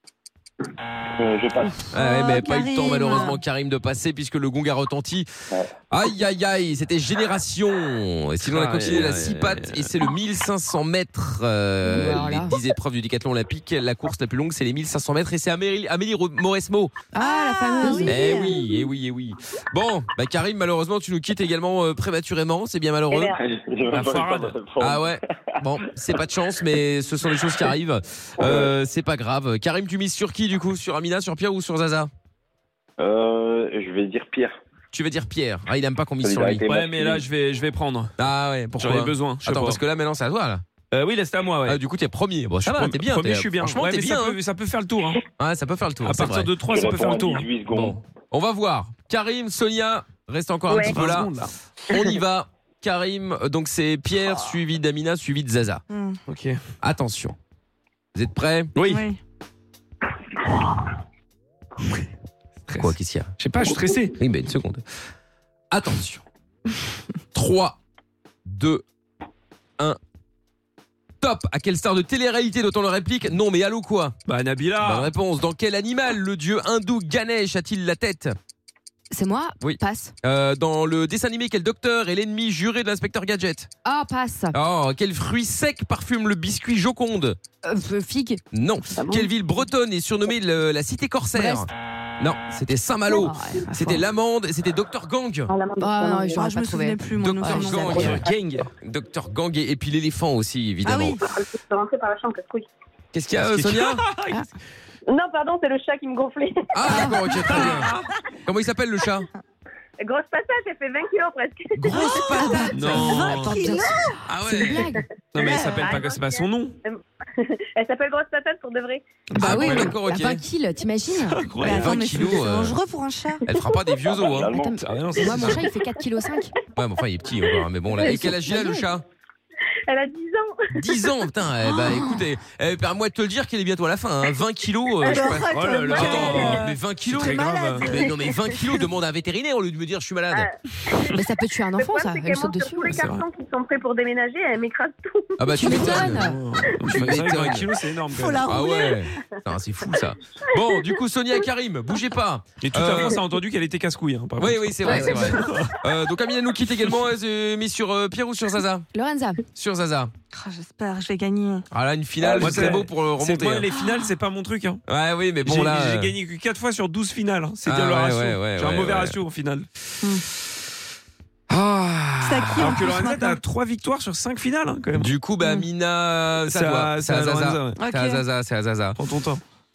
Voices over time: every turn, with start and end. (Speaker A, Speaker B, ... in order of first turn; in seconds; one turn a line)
Speaker A: 1.2-1.9
Speaker B: 1.9-5.3
Speaker C: 1.9-3.4
Speaker B: 5.9-16.9
Speaker D: 8.4-10.0
Speaker E: 11.9-12.5
Speaker E: 17.1-18.4
Speaker C: 17.1-18.6
Speaker B: 18.0-23.3
Speaker A: 23.4-25.2
Speaker D: 23.9-24.5
Speaker B: 24.8-32.1
Speaker A: 28.4-28.7
Speaker A: 33.0-34.5
Speaker B: 34.9-36.6
Speaker A: 36.2-37.2
Speaker D: 36.7-38.1
Speaker B: 38.2-40.6
Speaker D: 38.8-39.8
Speaker D: 40.9-41.8
Speaker B: 41.6-44.4
Speaker D: 42.6-45.2
Speaker B: 45.4-46.5
Speaker D: 46.0-47.9
Speaker A: 46.7-48.0
Speaker B: 47.7-51.3
Speaker D: 50.8-51.5
Speaker B: 51.9-55.8
Speaker C: 55.9-56.2
Speaker D: 56.3-56.6
Speaker B: 56.8-57.4
Speaker B: 58.1-58.7
Speaker D: 58.7-59.1
Speaker C: 58.8-59.2
Speaker D: 62.7-64.2
Speaker B: 62.8-63.3
Speaker B: 64.2-64.8
Speaker B: 65.7-66.2
Speaker B: 67.3-67.8
Speaker B: 68.5-68.8
Speaker B: 71.2-74.1
Speaker D: 74.2-75.1
Speaker B: 74.8-78.3
Speaker E: 79.1-80.1
Speaker B: 79.6-83.7
Speaker E: 83.8-84.5
Speaker B: 84.5-87.4
Speaker E: 87.6-88.4
Speaker B: 88.5-91.7
Speaker F: 88.9-89.3
Speaker B: 92.2-95.5
Speaker E: 93.1-94.0
Speaker F: 95.5-96.5
Speaker E: 95.8-98.2
Speaker C: 96.3-97.8
Speaker B: 97.4-98.2
Speaker F: 97.8-98.3
Speaker D: 97.9-98.7
Speaker B: 98.8-101.2
Speaker C: 100.8-101.2
Speaker F: 101.2-102.7
Speaker B: 103.1-104.0
Speaker D: 103.3-104.5
Speaker F: 105.1-107.0
Speaker B: 106.7-109.3
Speaker C: 106.9-107.9
Speaker D: 107.4-108.1
Speaker F: 110.0-112.6
Speaker C: 111.8-114.3
Speaker D: 112.7-113.7
Speaker B: 112.8-113.2
Speaker E: 113.2-115.0
Speaker B: 114.2-114.9
Speaker F: 115.0-119.0
Speaker D: 115.3-116.8
Speaker C: 115.4-115.9
Speaker E: 119.3-121.4
Speaker B: 119.3-120.4
Speaker D: 119.4-119.9
Speaker C: 119.5-119.9
Speaker D: 121.2-122.1
Speaker B: 121.5-122.8
Speaker C: 121.6-123.4
Speaker B: 123.5-124.5
Speaker A: 124.3-125.5
Speaker E: 124.5-126.5
Speaker D: 124.8-125.7
Speaker B: 125.3-125.6
Speaker B: 126.7-129.0
Speaker F: 127.5-128.4
Speaker E: 128.0-128.8
Speaker F: 129.9-131.1
Speaker B: 130.7-140.5
Speaker C: 131.6-132.2
Speaker C: 135.1-138.2
Speaker D: 135.5-138.0
Speaker F: 135.9-136.7
Speaker F: 140.3-141.2
Speaker E: 141.1-143.1
Speaker F: 141.8-145.6
Speaker B: 142.9-143.2
Speaker D: 143.0-143.2
Speaker B: 145.4-146.2
Speaker E: 145.6-146.4
Speaker D: 145.7-148.6
Speaker B: 146.9-147.7
Speaker C: 148.1-149.1
Speaker B: 148.4-153.2
Speaker D: 152.6-155.8
Speaker B: 154.4-158.9
Speaker E: 154.8-155.2
Speaker E: 158.9-159.4
Speaker B: 159.5-160.1
Speaker C: 160.3-161.6
Speaker B: 161.7-163.7
Speaker A: 162.2-162.8
Speaker D: 162.4-164.8
Speaker C: 163.7-164.1
Speaker B: 164.9-166.2
Speaker D: 165.4-169.7
Speaker B: 167.6-169.2
Speaker B: 171.5-173.0
Speaker C: 172.2-173.4
Speaker D: 172.6-175.1
Speaker B: 174.9-179.0
Speaker C: 175.4-175.7
Speaker D: 176.4-177.8
Speaker C: 177.8-178.2
Speaker D: 179.0-179.4